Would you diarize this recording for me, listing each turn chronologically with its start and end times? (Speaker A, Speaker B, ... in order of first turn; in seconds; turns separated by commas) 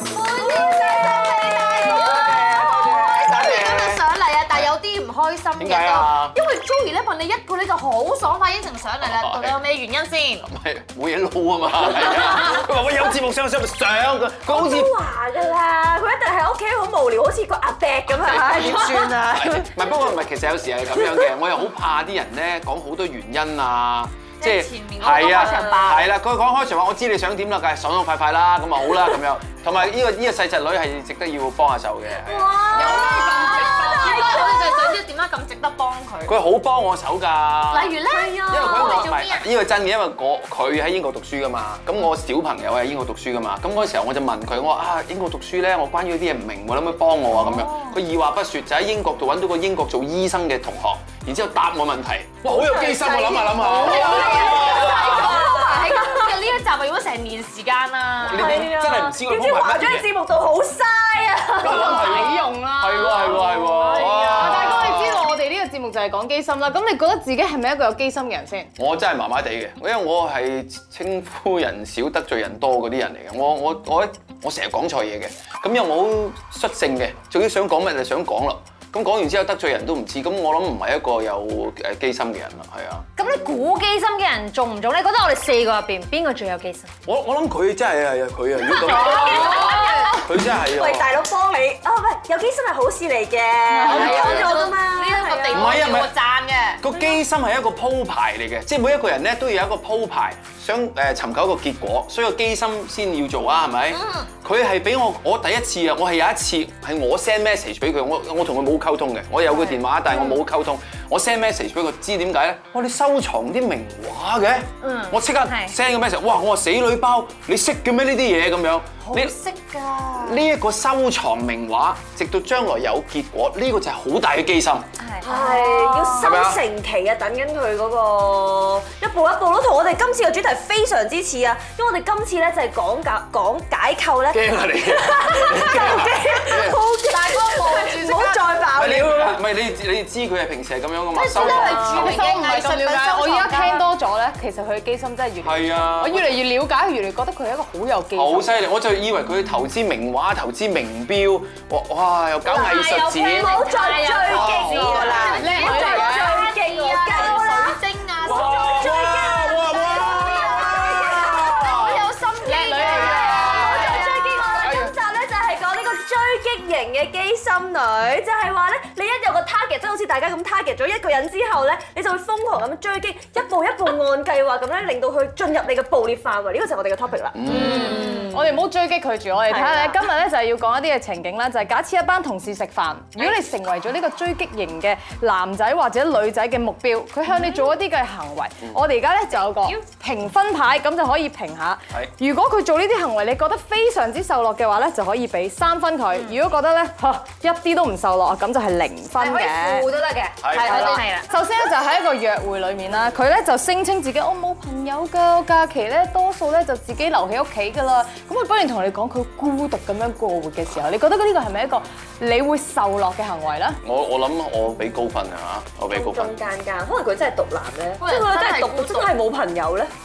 Speaker A: 0.1-10.5, Speaker B: 0.1-3.0, Speaker C: 2.2-4.7, Speaker C: 5.6-6.3, Speaker C: 9.0-9.6, Speaker C: 10.4-14.9, Speaker B: 14.5-19.9, Speaker C: 18.1-33.2, Speaker A: 24.4-26.1, Speaker B: 25.2-26.0, Speaker A: 32.3-36.4, Speaker D: 32.7-34.7, Speaker B: 32.7-35.0, Speaker C: 36.3-55.5, Speaker A: 37.7-39.5, Speaker B: 38.1-39.1, Speaker A: 47.5-47.9, Speaker B: 52.5-56.3, Speaker A: 53.6-58.7, Speaker D: 53.6-54.7, Speaker C: 58.2-60.1, Speaker B: 58.2-62.3, Speaker D: 61.6-63.7, Speaker C: 61.6-65.3, Speaker B: 63.2-64.7, Speaker A: 63.8-64.7, Speaker D: 64.2-68.7, Speaker C: 68.8-83.1, Speaker E: 83.2-86.9, Speaker C: 87.1-91.1, Speaker B: 88.7-95.8, Speaker A: 88.8-90.2, Speaker D: 89.2-89.9, Speaker D: 93.7-94.2, Speaker C: 93.9-94.6, Speaker A: 93.9-96.9, Speaker C: 95.5-96.1, Speaker C: 96.8-119.4, Speaker A: 103.9-104.3, Speaker E: 109.5-109.8, Speaker E: 114.8-115.8, Speaker E: 119.1-120.3, Speaker C: 120.1-124.9, Speaker E: 125.0-126.2, Speaker B: 125.2-139.4, Speaker C: 126.2-126.6, Speaker C: 134.3-136.8, Speaker A: 137.1-138.5, Speaker C: 138.7-142.2, Speaker A: 141.2-143.8, Speaker B: 141.3-142.0, Speaker D: 141.4-148.6, Speaker C: 145.4-146.4, Speaker C: 148.1-155.5, Speaker E: 152.5-155.1, Speaker B: 153.1-157.8, Speaker A: 153.8-164.7, Speaker D: 155.4-156.4, Speaker C: 158.2-162.1, Speaker B: 158.3-161.9, Speaker D: 162.4-164.5, Speaker B: 162.8-178.6, Speaker C: 162.9-164.0, Speaker C: 164.5-164.9, Speaker C: 177.3-178.1, Speaker D: 177.5-199.9, Speaker A: 177.5-178.1, Speaker B: 179.5-180.0, Speaker E: 199.2-201.3, Speaker C: 200.4-201.0, Speaker A: 200.5-201.0, Speaker D: 200.6-213.8, Speaker C: 213.8-216.4, Speaker B: 215.9-219.9, Speaker A: 218.0-219.2